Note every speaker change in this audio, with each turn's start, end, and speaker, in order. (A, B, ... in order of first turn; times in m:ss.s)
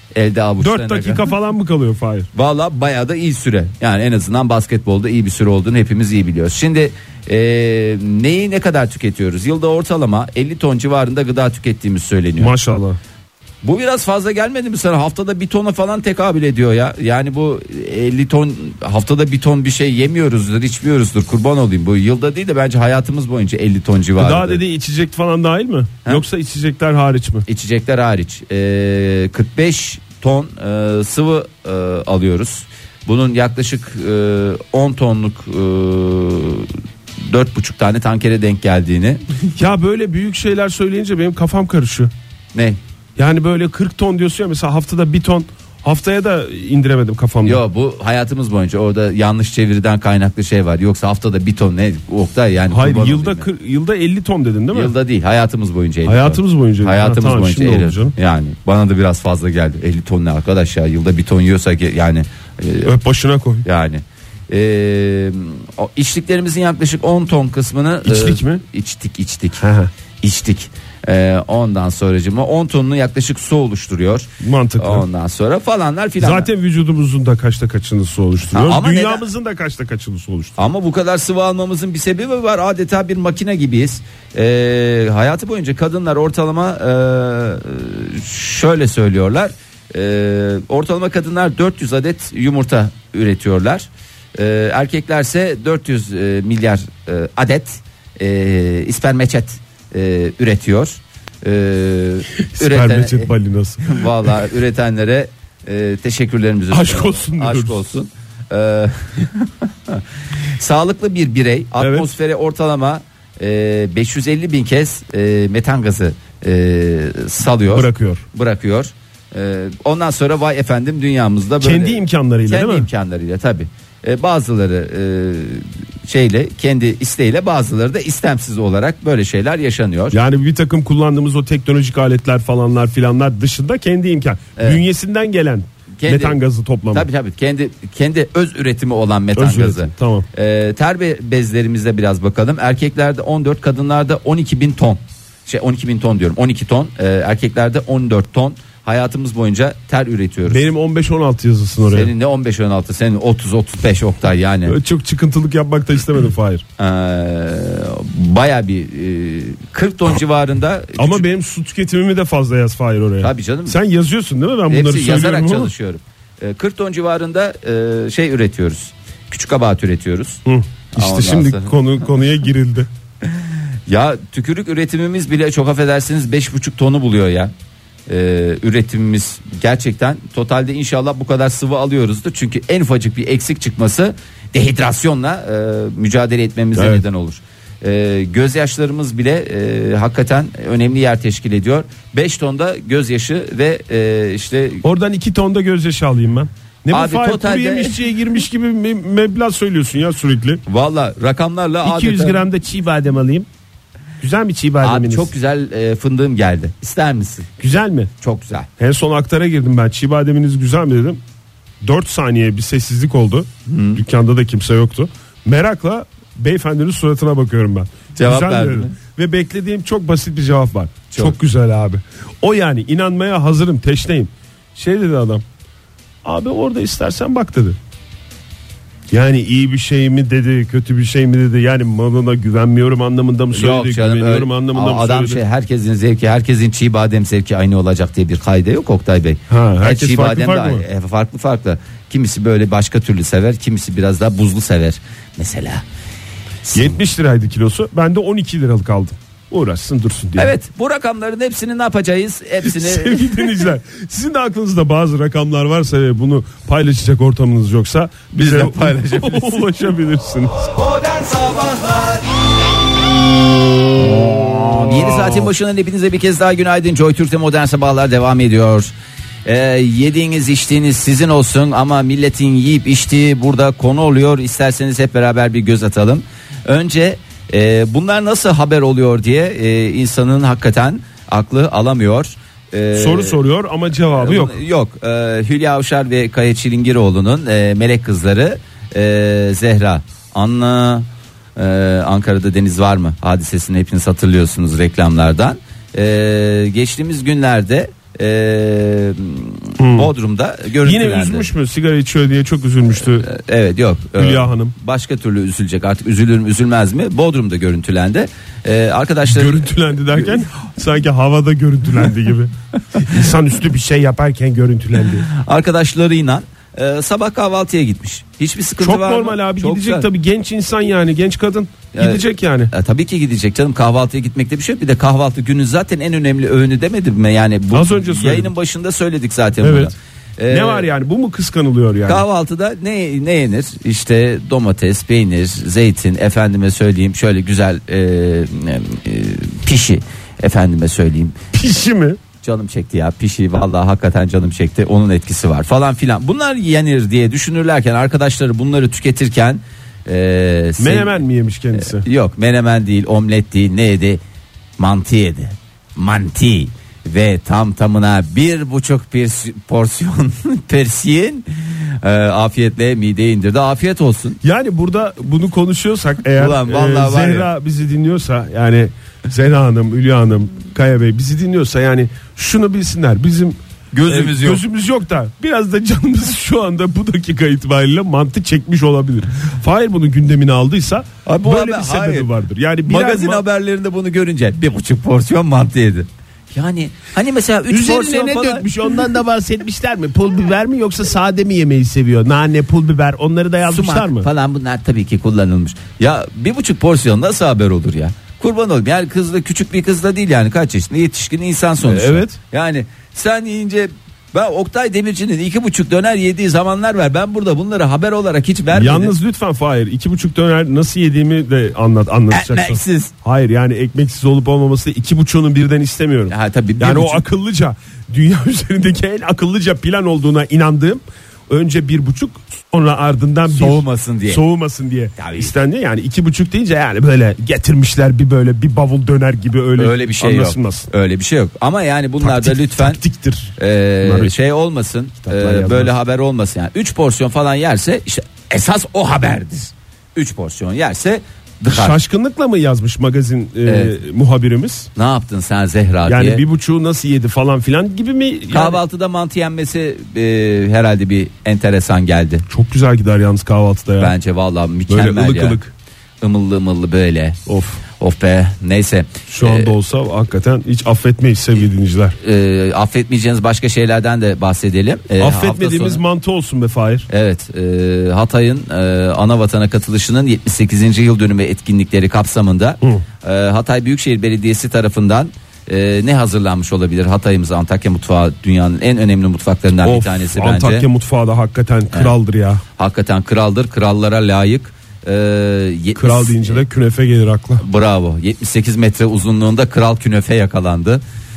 0:00.1-0:01.2 A
0:00.6-0:02.3 B
0:02.3-0:12.6 A
0:12.4-0:13.0 B
0:13.6-0:24.6 A
0:24.2-0:27.4 B
0:27.4-0:36.7 A
0:37.2-0:39.2 A
0:39.6-0:42.1 B
0:42.5-0:42.8 A
0:43.2-0:47.6 B
0:47.4-0:53.4 A
0:52.7-0:54.9 B
0:54.7-1:02.9 A
0:56.0-0:58.1 B
1:02.8-1:03.6 B
1:03.6-1:09.6 A
1:08.0-1:08.6 B
1:09.6-1:09.9 B
1:10.2-1:16.5 A
1:14.4-1:15.0 B
1:16.2-1:20.6 B
1:18.5-1:19.2 A
1:20.6-1:43.3 A
1:42.5-1:44.3 B
1:43.8-1:50.0 A
1:46.7-1:47.8 B
1:50.6-2:10.2 A
1:51.8-1:52.1 B
1:57.7-1:58.2 B
2:01.6-2:02.9 B
2:10.1-2:17.1 B
2:16.0-2:16.4 A
2:16.9-2:30.6 A
2:19.4-2:20.3 B
2:30.5-2:32.1 B
2:31.8-2:34.8 A
2:34.6-2:36.6 B
2:36.8-2:41.2 A
2:41.0-2:45.7 B
2:43.2-2:43.8 A
2:44.7-2:50.4 A
2:50.4-2:52.9 B
2:50.9-2:51.7 A
2:53.2-2:57.5 A
2:58.1-3:14.8 A
3:06.8-3:07.0 B
3:14.8-3:20.6 B
3:16.9-3:18.0 A
3:20.6-3:22.4 A
3:21.8-3:23.5 B
3:24.2-3:25.3 B
3:24.8-3:27.5 A
3:27.6-3:28.1 B
3:28.2-3:28.7 A
3:28.8-3:31.2 B
3:31.8-3:45.4 B
3:33.6-3:34.0 A
3:38.2-3:38.9 A
3:46.2-3:47.8 B
3:49.1-3:55.4 B
3:53.5-4:05.8 A
3:59.5-4:00.8 B
4:06.6-4:06.9 A
4:06.7-4:10.5 B
4:10.4-4:13.5 A
4:12.6-4:20.7 B
4:18.4-4:19.8 A
4:20.9-4:22.2 A
4:24.1-4:28.9 A
4:24.7-4:25.5 B
4:29.4-4:43.4 A
4:42.9-4:44.6 B
4:44.1-5:01.5 A
4:59.8-5:00.1 B
5:00.8-5:03.3 B
5:03.2-5:10.4 A
5:04.2-5:04.7 B
5:09.3-5:15.3 B
5:15.2-5:20.1 A
5:18.8-5:22.7 B
5:21.9-5:30.9 A
5:27.7-5:28.5 B
5:29.6-5:29.9 B
5:30.5-5:32.2 B
5:32.0-5:41.4 A
5:41.5-5:42.2 B
5:42.4-5:51.2 A
5:50.8-5:52.0 B
5:51.7-5:54.2 A
5:54.8-6:04.4 A
6:04.4-6:23.4 B
6:06.4-6:07.5 A
6:13.9-6:14.6 A
6:21.2-6:22.3 A
6:22.9-6:28.7 A
6:27.7-6:34.3 B
6:33.7-6:49.1 A
6:41.8-6:42.4 B
6:48.7-7:10.9 B
6:52.3-6:53.1 A
6:56.3-6:57.2 A
7:03.5-7:04.4 A
7:05.2-7:05.5 A
7:09.8-7:13.0 A
7:12.2-7:14.3 B
7:13.6-7:22.0 A
7:15.2-7:15.9 B
7:21.7-7:24.9 B
7:23.6-7:23.9 A
7:24.9-7:26.4 A
7:26.0-7:28.8 B
7:28.5-7:32.4 A
7:32.5-7:34.1 B
7:34.0-7:35.6 A
7:34.9-7:35.7 B
7:36.2-7:37.4 A
7:37.5-7:37.8 B
7:38.0-7:39.7 A
7:39.3-7:42.2 B
7:42.2-7:46.0 A
7:45.2-7:47.1 B
7:47.1-8:00.8 A
7:59.8-8:02.6 B
8:02.8-8:06.6 A
8:06.0-8:07.6 B
8:07.6-8:11.0 A